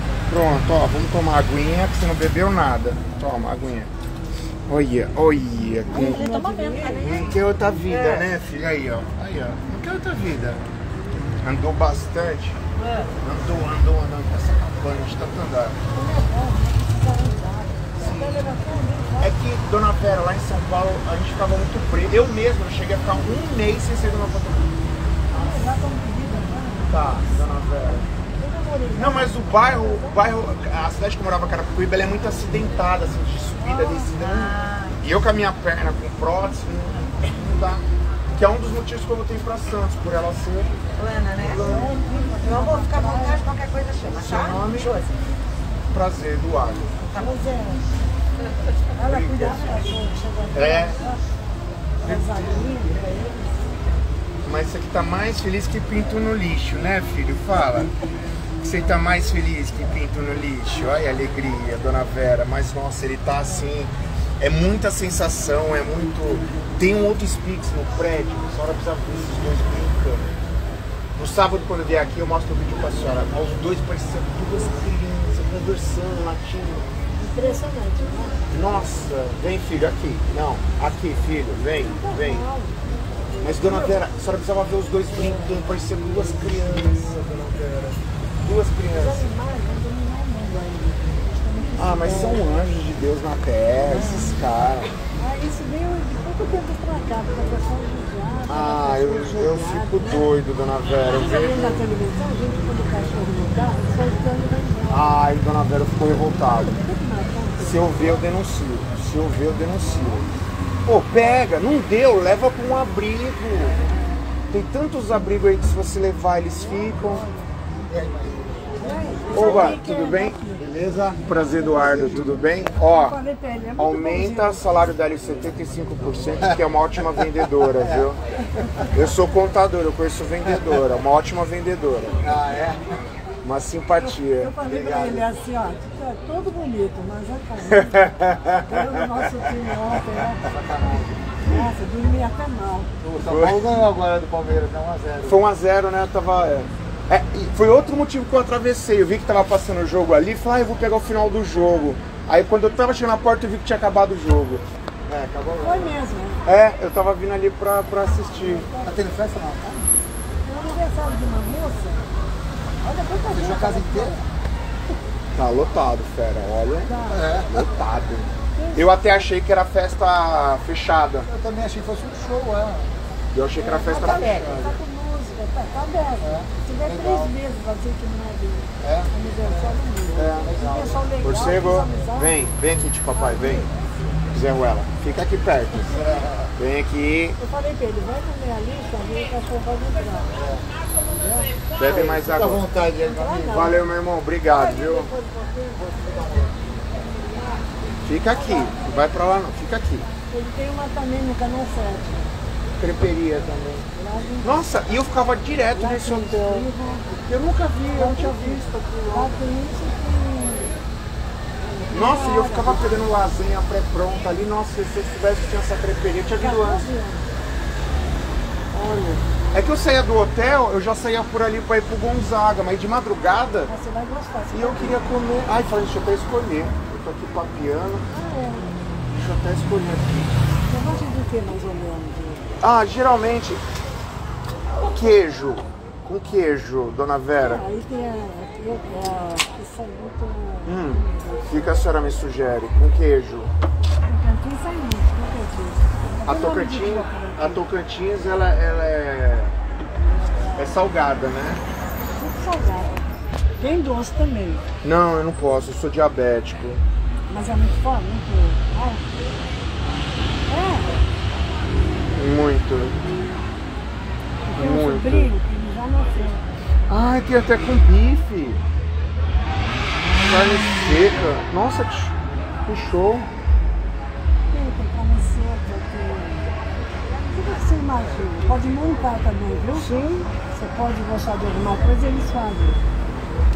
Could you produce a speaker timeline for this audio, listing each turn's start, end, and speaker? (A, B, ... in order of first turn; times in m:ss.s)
0:00.3-0:03.9 A
0:04.7-0:06.2 A
0:05.9-0:07.2 B
0:05.9-0:07.3 C
0:07.0-0:10.6 A
0:07.9-0:08.3 C
0:11.4-0:12.6 A
0:12.8-0:13.1 C
0:13.2-0:15.8 A
0:15.9-0:19.3 B
0:18.0-0:18.5 A
0:19.2-0:24.7 A
0:25.3-0:26.9 B
0:26.9-0:28.0 A
0:28.4-0:30.2 B
0:28.9-0:40.7 A
0:33.6-0:34.0 B
0:33.9-0:35.0 C
0:41.0-0:41.6 C
0:41.4-0:42.0 A
0:41.6-0:43.4 B
0:42.3-0:45.1 C
0:44.1-0:44.9 A
0:45.9-0:46.9 A
0:47.1-0:47.4 C
0:47.1-0:47.8 B
0:49.0-0:51.2 B
0:49.0-0:49.7 A
0:50.5-0:51.0 A
0:52.0-0:53.5 B
0:54.4-0:57.9 A
0:58.6-1:10.3 A
1:11.2-1:17.0 A
1:17.2-1:18.5 B
1:18.5-1:22.4 A
1:21.9-1:22.8 B
1:23.4-1:29.3 A
1:23.6-1:24.0 B
1:28.9-1:32.6 B
1:31.8-1:34.9 A
1:33.9-1:34.3 B
1:35.2-1:40.3 B
1:38.5-1:41.8 A
1:41.1-1:45.1 B
1:44.9-1:46.8 A
1:46.6-1:47.9 B
1:47.6-1:50.3 A
1:50.8-1:53.8 A
1:54.5-1:57.3 A
1:58.8-2:00.7 B
1:59.3-2:00.4 A
2:00.6-2:01.1 D
2:01.2-2:03.2 A
2:01.8-2:02.1 B
2:02.7-2:04.6 B
2:03.8-2:08.2 A
2:08.9-2:12.2 A
2:12.2-2:12.8 D
2:13.4-2:14.5 A
2:14.0-2:18.1 B
2:14.6-2:15.2 D
2:17.7-2:18.9 A
2:18.7-2:20.5 B
2:20.4-2:21.2 D
2:21.4-2:22.9 B
2:23.0-2:25.3 D
2:23.2-2:23.8 A
2:25.2-2:35.9 A
2:35.6-2:36.4 B
2:36.4-2:38.7 A
2:38.5-2:39.0 B
2:38.8-2:39.9 D
2:40.4-2:42.1 B
2:42.8-2:44.1 B
2:43.3-2:44.2 D
2:45.3-2:51.3 A
2:46.9-2:47.3 B
2:48.6-2:49.0 B
2:51.3-2:52.9 D
2:53.3-2:54.5 A
2:53.6-3:02.5 B
2:54.0-2:54.6 C
2:56.2-2:57.3 D
2:58.8-2:59.1 D
3:00.2-3:01.0 D
3:00.2-3:00.5 A
3:01.2-3:03.7 A
3:03.2-3:03.7 B
3:04.3-3:06.0 A
3:06.5-3:07.4 A
3:07.4-3:10.3 B
3:11.8-3:12.7 A
3:12.6-3:13.4 D
3:13.0-3:13.9 B
3:13.5-3:15.1 A
3:14.5-3:16.0 B
3:16.0-3:16.4 D
3:17.3-3:17.6 B
3:18.0-3:20.1 A
3:18.3-3:18.7 B
3:20.3-3:22.3 B
3:22.8-3:23.8 A
3:24.0-3:24.6 B
3:24.4-3:29.4 A
3:25.7-3:27.1 B
3:27.9-3:30.8 B
3:31.6-3:33.0 B
3:31.9-3:36.9 A
3:36.4-3:37.2 B
3:38.7-3:43.7 A
3:43.7-3:45.0 B
3:44.5-3:48.0 A
3:48.1-3:48.7 B
3:49.1-3:50.4 A
3:50.7-3:52.5 B
3:52.6-3:53.6 A
3:54.8-3:57.6 A
3:57.4-4:01.8 B
4:00.6-4:03.5 A
4:04.0-4:07.6 B
4:06.2-4:09.5 A
4:10.5-4:11.6 A
4:12.2-4:13.0 B
4:13.6-4:14.6 B
4:14.8-4:16.8 A
4:17.3-4:19.1 B
4:20.5-4:21.0 B
4:22.2-4:23.0 A
4:24.4-4:26.4 B
4:24.5-4:25.3 A
4:26.9-4:28.6 A
4:30.2-4:33.3 A
4:34.5-4:36.5 B
4:37.3-4:39.9 B
4:39.7-4:40.3 A
4:40.5-4:42.8 B